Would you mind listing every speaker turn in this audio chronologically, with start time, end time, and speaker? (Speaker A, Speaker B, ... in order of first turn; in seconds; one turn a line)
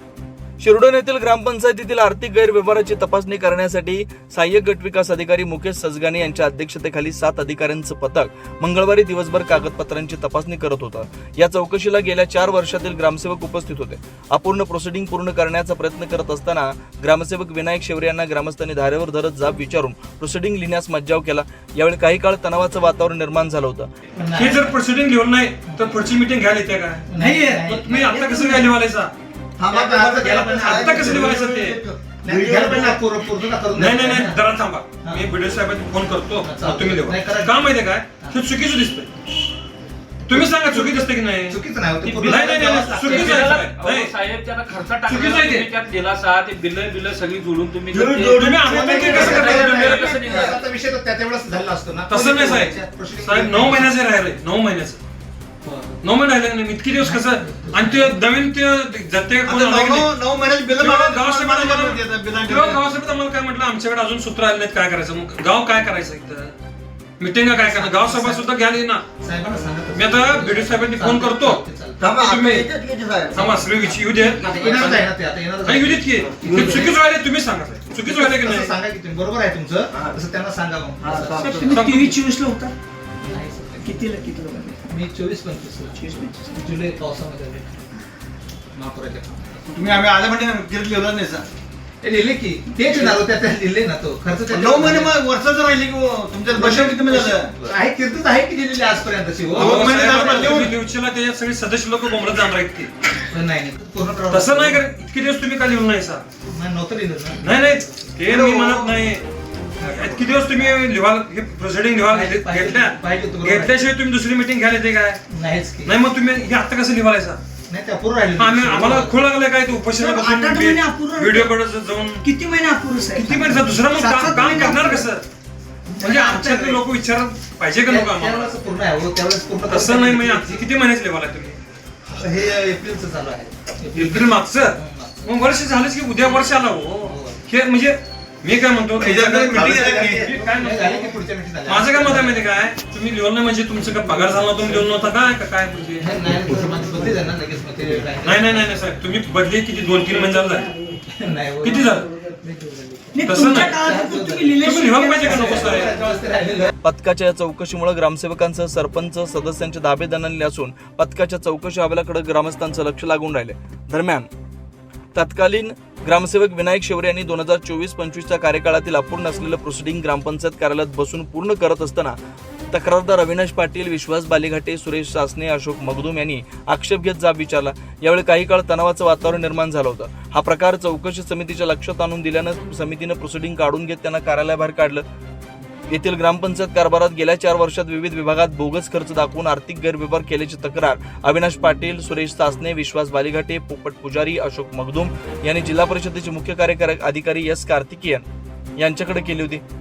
Speaker A: 0.6-23.9
Speaker B: 24.1-24.7
Speaker C: 24.3-27.1
Speaker B: 25.6-26.0
Speaker B: 27.1-28.1
Speaker D: 27.2-28.7
Speaker C: 27.7-29.1
Speaker E: 29.6-33.0
Speaker B: 29.6-31.5
Speaker C: 30.6-31.8
Speaker B: 32.2-34.4
Speaker C: 33.7-39.1
Speaker B: 35.0-35.3
Speaker B: 36.4-37.6
Speaker B: 40.2-43.5
Speaker C: 40.3-44.1
Speaker F: 42.9-50.6
Speaker C: 45.0-45.7
Speaker E: 47.9-49.3
Speaker C: 48.3-50.5
Speaker B: 48.6-53.9
Speaker C: 52.1-55.0
Speaker B: 55.6-56.0
Speaker C: 56.0-60.1
Speaker B: 57.0-58.1
Speaker E: 59.4-62.8
Speaker C: 60.8-66.5
Speaker C: 67.2-69.0
Speaker B: 67.4-68.5
Speaker B: 69.2-72.2
Speaker C: 69.9-72.7
Speaker E: 72.0-73.6
Speaker C: 73.3-75.0
Speaker B: 73.4-77.0
Speaker E: 74.2-74.7
Speaker C: 75.6-78.7
Speaker E: 76.5-76.8
Speaker B: 77.9-81.5
Speaker E: 81.0-81.8
Speaker D: 81.3-82.7
Speaker C: 81.7-82.2
Speaker B: 83.2-84.0
Speaker D: 83.8-84.8
Speaker B: 84.9-87.8
Speaker D: 85.9-86.6
Speaker B: 88.7-89.7
Speaker E: 89.7-91.5
Speaker B: 92.0-95.2
Speaker E: 92.9-93.2
Speaker E: 94.5-97.5
Speaker B: 96.5-100.7
Speaker E: 99.5-100.7
Speaker C: 99.5-102.9
Speaker B: 103.3-104.8
Speaker C: 104.3-106.2
Speaker B: 106.5-108.2
Speaker C: 107.4-109.2
Speaker E: 108.3-109.0
Speaker E: 109.8-110.2
Speaker C: 109.8-115.2
Speaker B: 110.2-110.7
Speaker B: 112.1-113.8
Speaker B: 115.3-116.0
Speaker C: 115.8-117.4
Speaker B: 117.7-119.2
Speaker C: 118.4-122.2
Speaker D: 120.0-121.5
Speaker D: 122.2-125.0
Speaker C: 123.1-125.2
Speaker C: 126.0-128.6
Speaker B: 126.0-126.8
Speaker D: 126.0-126.6
Speaker B: 127.8-130.7
Speaker C: 129.7-131.6
Speaker B: 132.1-135.4
Speaker C: 133.9-141.2
Speaker B: 137.0-137.4
Speaker E: 138.9-140.3
Speaker B: 139.7-142.5
Speaker C: 141.7-146.1
Speaker B: 146.0-148.8
Speaker C: 148.2-150.7
Speaker B: 151.0-154.7
Speaker C: 151.6-152.1
Speaker D: 153.1-155.7
Speaker C: 153.2-153.8
Speaker C: 154.6-155.9
Speaker B: 155.2-156.7
Speaker A: 156.8-164.3
Speaker A: 165.1-172.2
Speaker A: 172.7-185.0
Speaker A: 185.9-198.2
Speaker A: 198.8-199.6